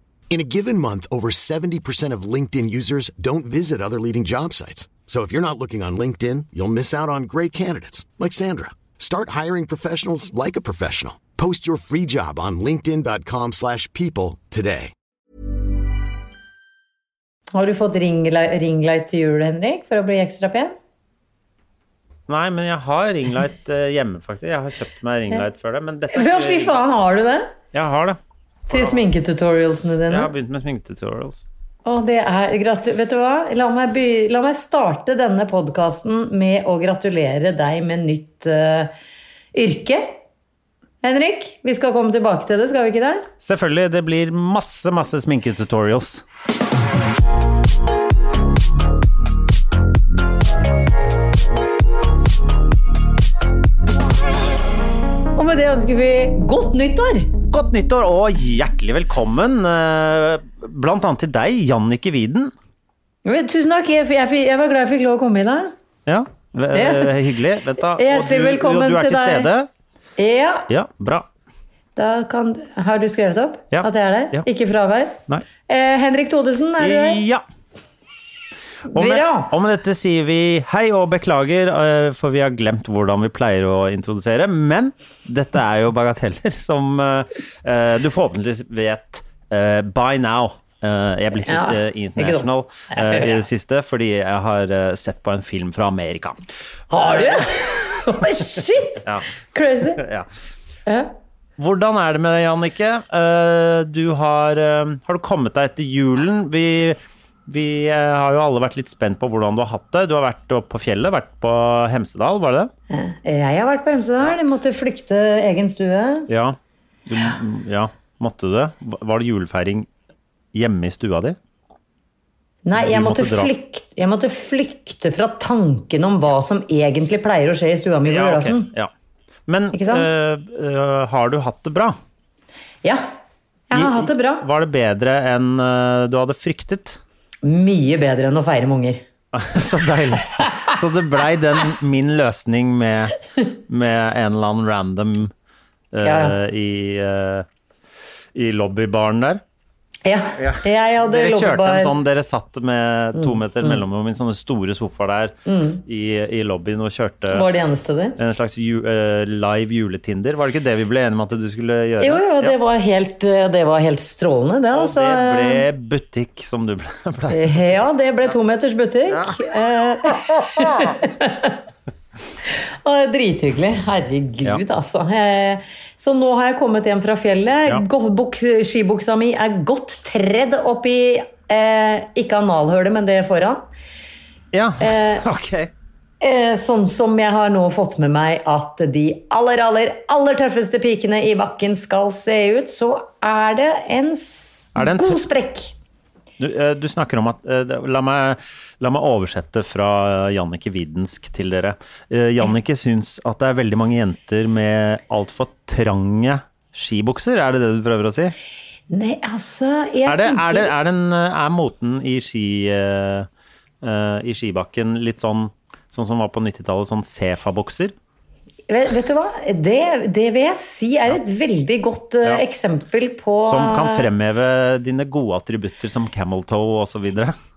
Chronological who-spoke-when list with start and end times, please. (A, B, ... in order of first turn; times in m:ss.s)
0:00.3-0:14.9 A
0:17.5-0:20.8 B
0:22.3-0:26.8 C
0:26.1-0:27.5 B
0:27.7-0:28.2 C
0:28.7-0:29.0 C
0:28.7-0:30.3 B
0:30.1-0:31.4 C
0:31.8-0:38.9 B
0:39.5-0:40.2 B
0:41.0-0:43.3 B
0:43.4-0:46.2 C
0:55.4-0:57.3 B
0:57.5-1:02.5 C
1:03.2-1:05.7 B
1:06.1-1:09.7 C
1:06.7-1:07.1 B
1:07.9-1:09.5 B
1:10.2-1:10.7 B
1:10.7-1:11.3 C
1:12.0-1:17.2 B
1:13.7-1:14.4 C
1:16.8-1:17.4 C
1:18.9-1:19.5 B
1:18.9-1:36.4 C
1:31.4-1:33.4 B
1:36.9-1:40.0 B
1:36.9-1:37.5 C
1:39.0-1:39.3 C
1:40.0-1:40.3 C
1:40.9-1:41.1 B
1:41.6-1:52.7 C
1:52.9-1:56.3 B
1:56.3-1:56.6 C
1:57.1-1:59.9 C
2:00.5-2:01.4 C
2:02.6-2:08.7 B
2:02.8-2:03.5 C
2:08.1-2:08.9 C
2:09.5-2:12.0 C
2:09.7-2:10.1 B
2:13.7-2:14.4 B
2:13.7-2:17.0 C
2:17.4-2:19.0 B
2:19.3-2:25.3 C
2:25.9-2:27.5 C
2:26.0-2:26.4 B
2:28.4-2:29.4 C
2:30.0-2:32.0 B
2:30.4-2:35.3 C
2:33.2-2:33.8 B
2:35.5-2:35.8 B
2:35.9-2:37.5 C
2:37.3-2:38.2 B
2:38.2-2:42.6 C
2:42.0-2:45.6 B
2:44.7-2:47.8 C
2:47.3-2:51.6 B
2:49.1-2:49.5 C
2:50.1-2:51.0 C
2:52.5-3:03.7 B
3:04.5-3:05.7 C
3:04.8-3:05.2 B
3:06.2-3:15.7 B
3:14.8-3:15.2 C
3:16.4-3:28.4 C
3:28.9-3:30.7 B
3:30.1-3:33.3 C
3:33.8-3:37.9 C
3:38.7-3:44.1 B
3:43.4-3:47.4 C